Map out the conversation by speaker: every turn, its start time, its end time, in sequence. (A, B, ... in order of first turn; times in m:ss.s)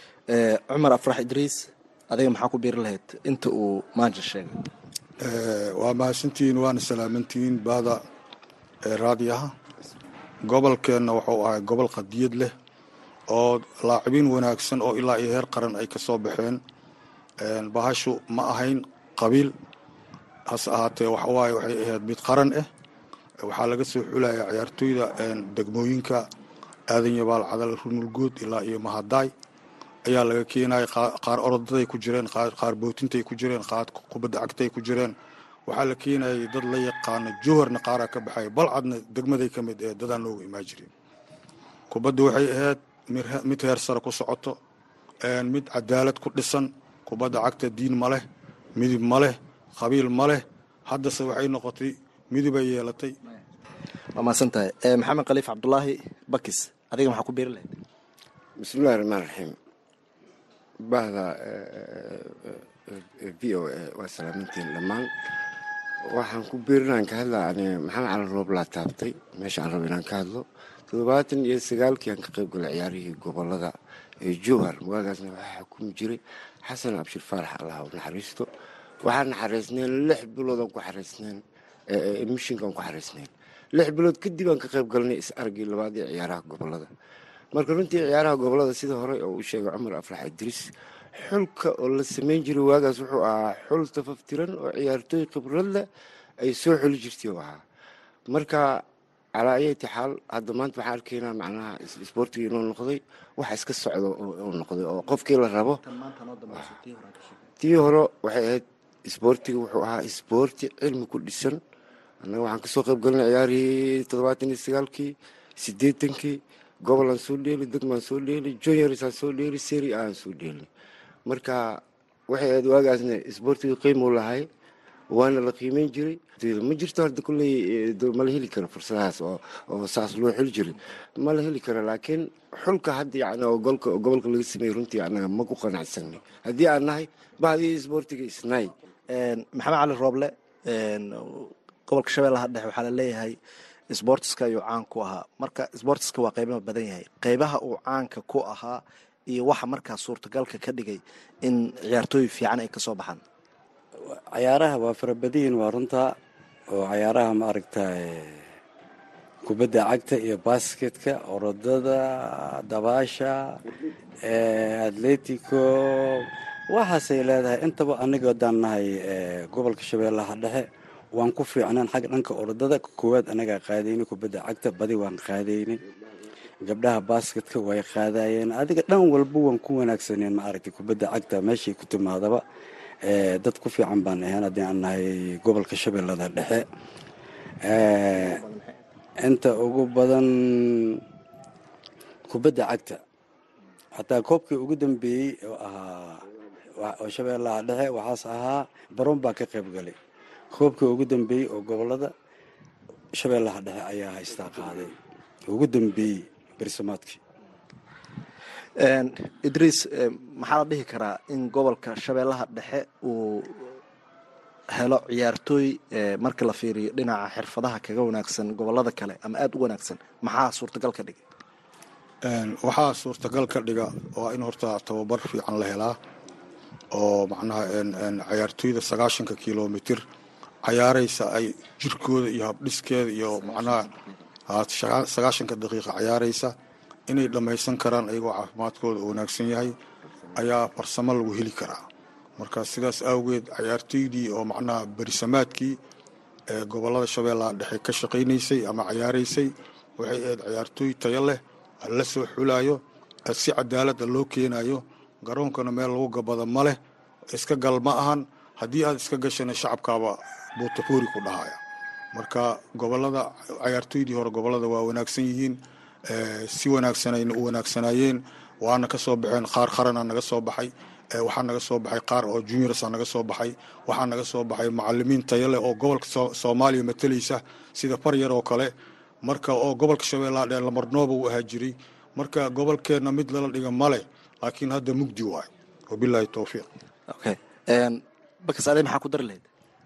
0:00.3-0:04.6 A
0:05.2-0:08.0 B
0:08.8-0:09.5 B
0:10.4-0:12.5 B
0:13.3-0:16.6 B
0:17.4-0:19.5 B
0:20.5-0:22.7 B
0:23.4-0:26.2 B
0:26.9-0:29.3 B
0:30.0-0:35.1 B
0:35.7-0:40.9 B
0:41.9-0:44.6 B
0:45.2-0:48.2 B
0:48.8-0:53.1 B
0:54.2-0:57.8 A
0:58.6-0:59.6 C
1:00.8-1:05.1 C
1:06.0-1:18.5 C
1:19.0-1:26.9 C
1:27.5-1:35.8 C
1:36.4-1:37.6 C
1:38.3-1:38.8 C
1:39.4-1:45.8 C
1:46.0-1:47.3 A
1:47.6-1:51.6 C
1:52.2-2:00.7 C
2:01.2-2:04.5 C
2:05.1-2:18.7 C
2:19.1-2:23.4 A
2:23.9-2:33.2 A
2:34.3-2:36.1 D
2:36.7-2:38.5 D
2:39.4-2:43.6 D
2:44.2-2:55.8 D
2:56.6-3:02.4 D
3:03.0-3:06.6 D
3:07.6-3:08.4 D
3:09.2-3:11.0 D
3:12.3-3:13.0 D
3:14.0-3:16.2 D
3:16.8-3:20.0 D
3:20.5-3:22.1 D
3:23.1-3:24.9 D
3:25.5-3:27.2 D
3:28.8-3:33.8 A
3:34.7-3:41.2 A
3:42.2-3:46.0 B
3:46.9-3:50.0 B
3:50.6-3:53.9 B
3:54.5-3:56.5 B
3:57.1-3:59.8 B
4:00.3-4:01.8 B
4:02.4-4:05.8 B
4:06.5-4:16.8 B
4:17.3-4:21.6 B
4:22.1-4:38.7 B
4:39.2-4:46.6 B
4:47.1-4:49.4 A